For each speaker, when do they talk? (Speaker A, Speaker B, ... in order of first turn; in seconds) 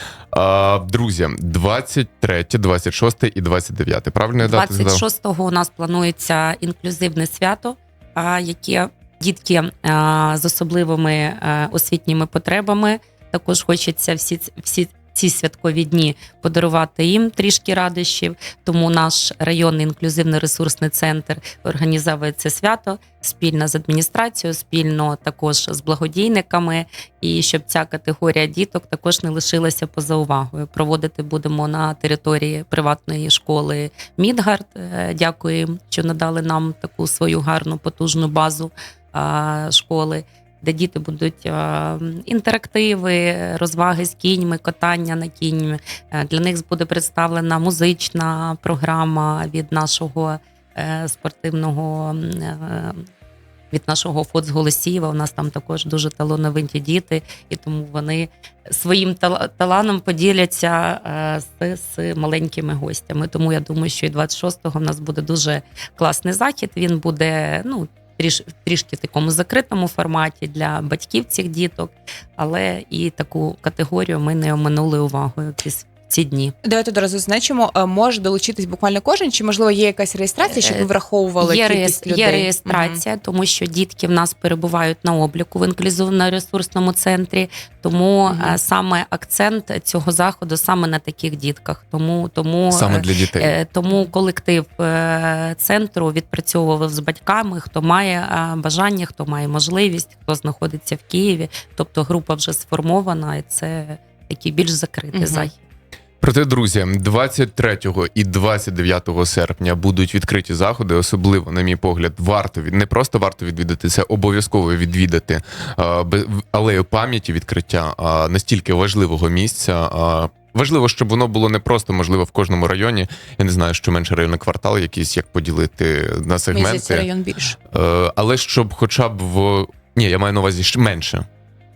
Speaker A: 0.3-5.0, 92.7-93.5, 106.2-127.1, 127.7-131.2
Speaker B: 4.4-53.0, 53.7-76.5, 80.6-80.9, 81.4-105.6
Speaker C: 76.6-83.0, 88.2-88.6, 105.1-105.5, 126.5-127.6